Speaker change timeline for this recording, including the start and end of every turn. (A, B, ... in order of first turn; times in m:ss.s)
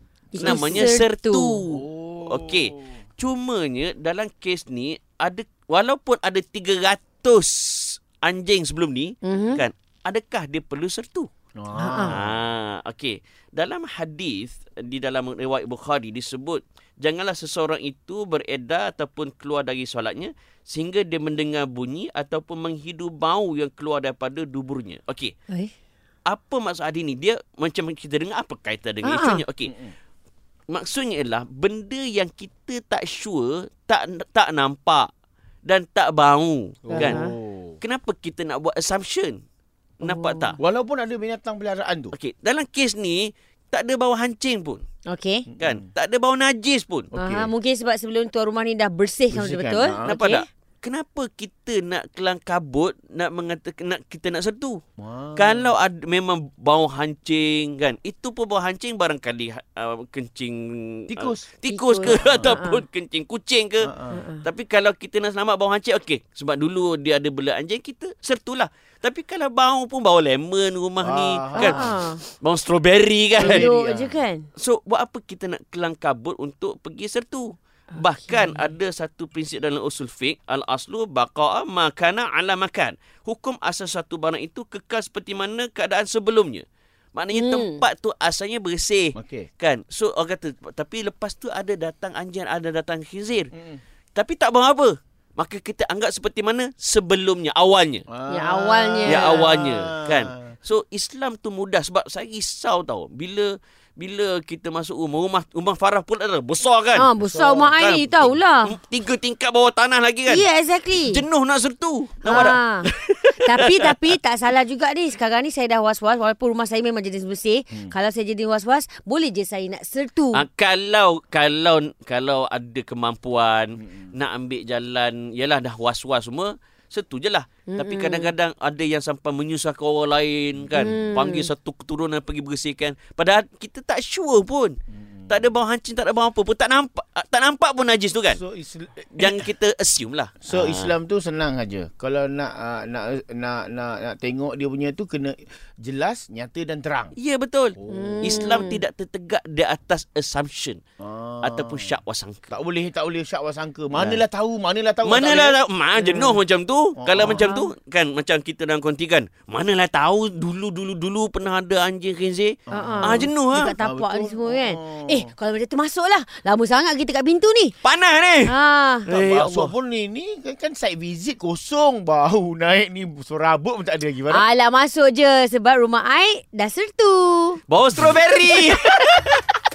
0:00.3-0:01.0 A
0:00.3-0:01.6 B
0:00.4-0:11.3 C
0:01.7-0:03.0 A
0:09.2-0:09.6 B
0:11.6-0:12.4 A
0:11.8-0:12.1 B
0:12.1-0:25.3 C
0:26.3-0:29.7 C
0:29.0-0:29.4 B
0:29.6-0:29.9 A
0:30.7-0:35.1 C
0:35.6-0:37.2 C
0:36.9-0:37.8 A
0:36.9-0:37.3 B
0:37.8-0:39.4 C
0:40.0-0:40.6 C
0:40.0-0:40.5 B
0:40.6-0:42.1 A
0:42.1-0:44.8 C
0:45.1-0:45.4 B
0:45.5-0:45.8 A
0:45.6-0:47.1 C
0:47.1-0:47.5 A
0:47.2-0:50.4 B
0:49.3-0:50.1 A
0:50.0-0:54.8 C
0:55.0-0:55.7 A
0:55.4-1:03.9 C
1:01.1-1:01.4 A
1:01.7-1:02.8 B
1:02.0-1:02.6 A
1:03.8-1:04.2 A
1:04.1-1:04.4 B
1:04.4-1:13.7 C
1:11.0-1:12.0 A
1:11.5-1:12.2 B
1:13.4-1:14.5 B
1:13.4-1:14.2 A
1:14.6-1:26.6 C
1:18.0-1:18.7 B
1:27.1-1:33.5 C
1:27.3-1:27.8 B
1:29.2-1:29.5 A
1:33.5-1:33.8 A
1:34.2-1:38.0 C
1:38.1-1:40.5 A
1:38.3-1:39.5 B
1:39.0-1:47.1 C
1:46.9-1:48.7 B
1:47.2-1:47.7 A
1:47.8-1:54.1 C
1:50.3-1:51.2 B
1:52.2-1:52.9 B
1:53.4-2:00.4 B
2:00.3-2:14.7 C
2:03.8-2:04.1 A
2:07.7-2:08.3 B
2:10.6-2:10.9 A
2:10.7-2:11.5 B
2:14.9-2:15.4 A
2:15.3-2:18.4 C
2:18.3-2:19.5 A
2:19.2-2:20.9 C
2:20.4-2:27.1 A
2:27.2-2:30.8 C
2:27.8-2:28.4 A
2:27.9-2:28.8 B
2:31.0-2:32.0 A
2:31.4-2:32.5 C
2:32.5-2:35.6 A
2:33.9-2:34.2 C
2:35.0-2:43.7 C
2:36.0-2:36.4 B
2:37.0-2:37.5 A
2:37.2-2:37.7 B
2:42.7-2:45.2 A
2:42.7-2:47.7 B
2:47.8-2:48.5 C
2:48.4-2:49.1 B
2:49.1-2:49.7 C
2:49.1-2:54.4 A
2:54.3-2:57.6 B
2:57.7-2:59.4 C